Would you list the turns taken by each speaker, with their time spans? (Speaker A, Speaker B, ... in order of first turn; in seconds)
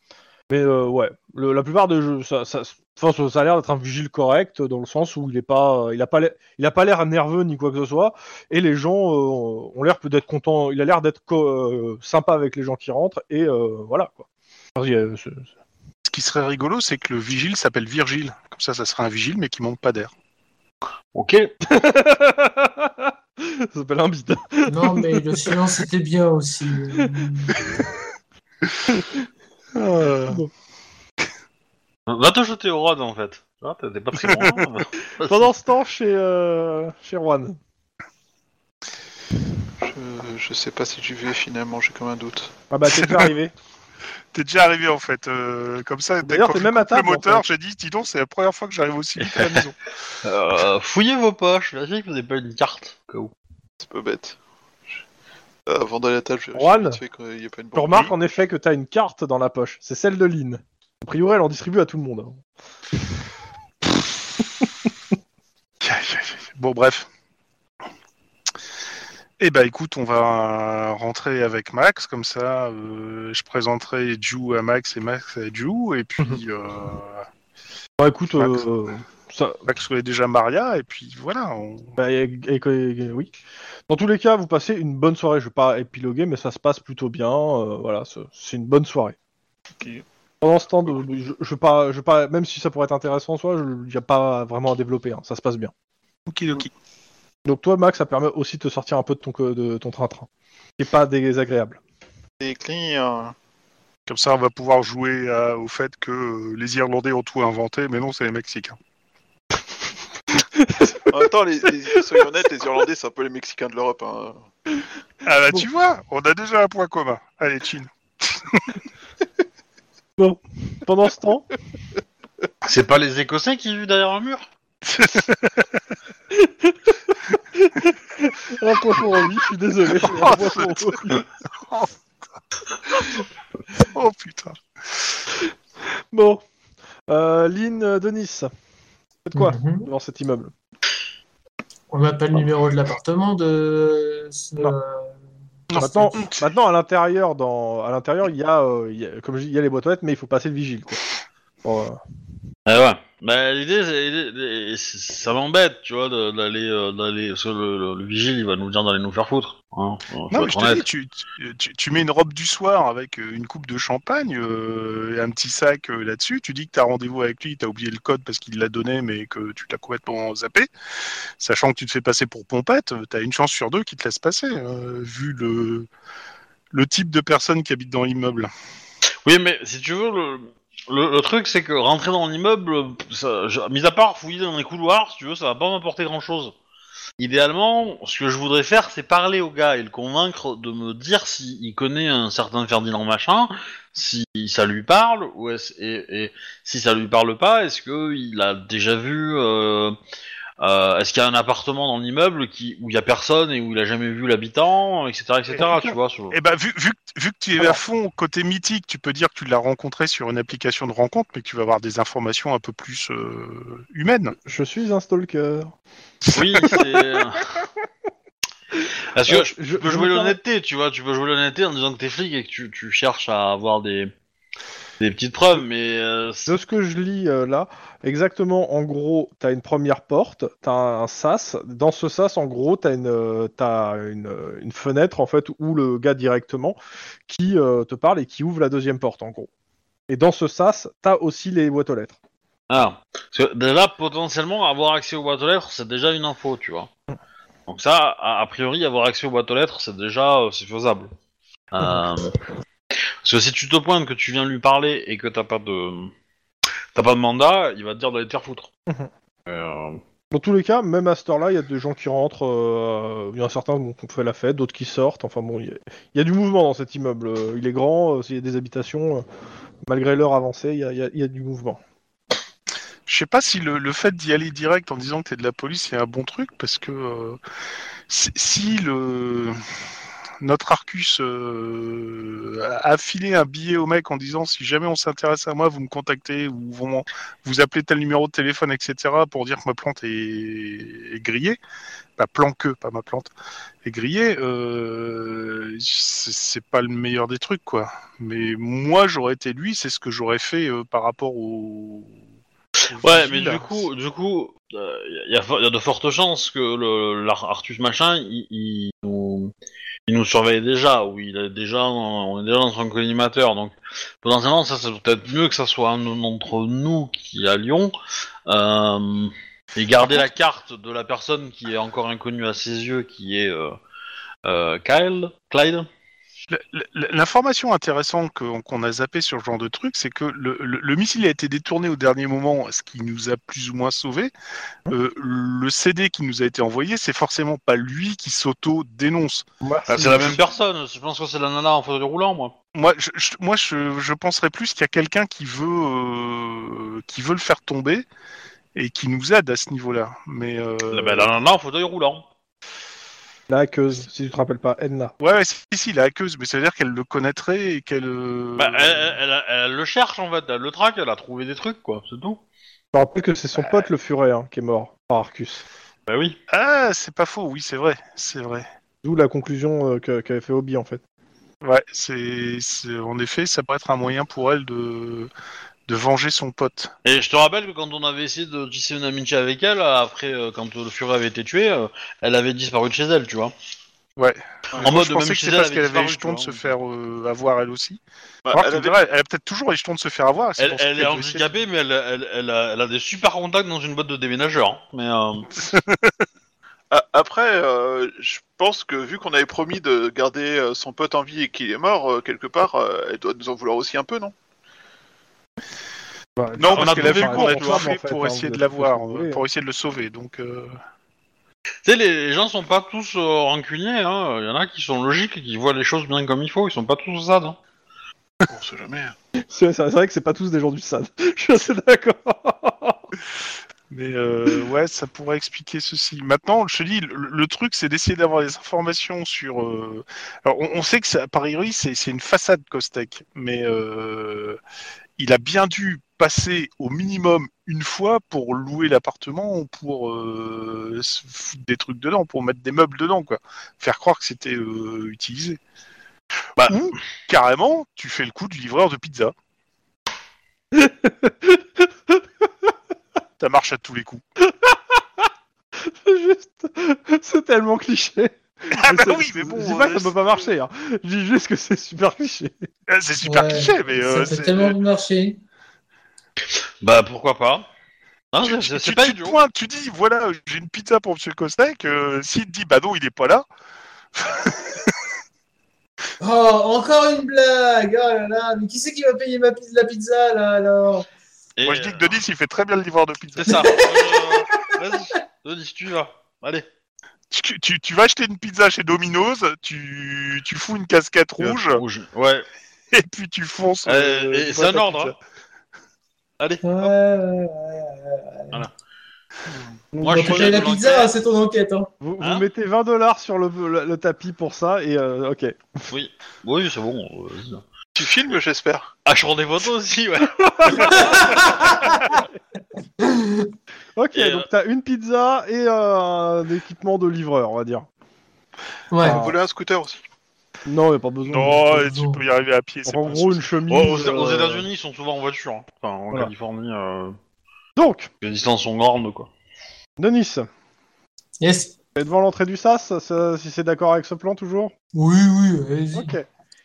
Speaker A: 0.5-14.2, 14.8-15.5, 21.6-25.7, 26.9-27.7, 35.2-37.6, 42.7-43.5, 46.2-47.4, 56.5-57.0, 57.8-62.4, 78.0-79.6, 82.0-83.3, 83.9-89.2, 90.4-95.7, 97.5-100.3, 100.8-101.8, 110.6-111.0, 120.2-121.5, 126.4-126.9, 127.6-131.2, 136.1-136.4, 137.1-138.5, 139.2-140.5, 145.7-151.0, 151.6-152.0, 214.5-215.7, 219.3-220.4, 226.5-239.5, 240.1-242.2, 260.3-269.2, 269.9-271.8, 339.6-340.4, 353.5-355.1, 362.9-365.6, 369.0-371.0, 406.4-409.4, 419.5-423.0, 450.7-452.2, 454.5-455.0, 455.8-462.7, 499.9-500.6, 502.0-505.9, 510.4-511.1, 514.0-517.9, 519.0-519.4, 520.7-521.6, 522.9-524.7, 527.8-528.1, 530.0-530.5, 532.0-534.7, 535.9-536.3
Speaker B: 16.1-20.1, 29.8-30.4, 42.9-43.3, 44.3-49.8, 65.8-67.1, 69.4-77.2, 78.3-78.6, 79.7-81.9, 96.3-96.7, 104.1-108.8, 115.2-118.7, 124.8-125.7, 130.0-131.9, 133.8-134.6, 145.7-146.5, 160.3-170.7, 171.4-175.9, 176.7-178.5, 205.7-214.3, 216.2-216.8, 273.1-277.4, 278.1-279.6, 280.4-291.6, 292.2-293.3, 293.8-302.1, 302.9-303.9, 326.5-334.3, 334.9-339.5, 340.0-340.4, 342.7-348.1, 348.8-351.3, 355.2-359.1, 366.5-368.7, 371.6-375.3, 375.9-376.9, 384.2-388.0, 388.5-391.5, 406.6-410.8, 423.9-434.6, 435.2-445.6, 446.7-449.3, 453.4-454.2, 458.7-460.1, 462.9-464.8, 468.4-473.4, 474.2-474.9, 481.7-483.7, 487.3-491.8, 492.9-495.2, 521.3-523.5
Speaker C: 21.1-21.5, 32.1-35.5, 49.2-49.7, 50.2-53.3, 122.6-124.5, 152.7-160.8, 179.2-186.5, 187.2-200.0, 200.6-206.4, 216.3-217.6, 219.1-224.1, 225.0-226.6, 242.7-246.9, 247.7-251.1, 251.7-252.3, 253.2-256.1, 256.9-258.7, 259.5-260.0, 303.0-309.5, 310.1-317.9, 318.5-323.8, 324.4-325.9, 339.9-342.5, 350.9-352.3, 358.6-362.4, 366.1-366.4, 377.1-383.5, 384.8-386.7, 390.6-395.5, 406.7-407.9, 411.9-417.6, 466.4-467.7, 468.3-469.4, 481.6-482.2, 483.4-486.7, 491.4-492.5, 493.9-495.1, 496.4-496.9, 500.0-501.1, 502.2-502.5, 505.9-507.6, 509.1-511.7, 514.1-514.5, 523.7-527.2, 528.2-529.3
Speaker D: 24.7-27.7, 139.3-139.9, 141.9-145.2, 145.9-146.2, 463.2-465.4, 476.2-481.1, 483.5-484.8, 496.6-498.6, 500.0-501.9, 510.8-512.2, 513.0-513.5, 518.9-519.3, 521.5-522.2, 531.4-531.8, 535.0-536.1
Speaker E: 39.8-42.5, 53.8-54.4, 55.7-58.2, 89.8-90.0, 102.4-103.3, 111.1-114.5, 388.4-389.0, 396.9-404.4, 418.5-419.2, 507.9-508.9, 519.0-520.0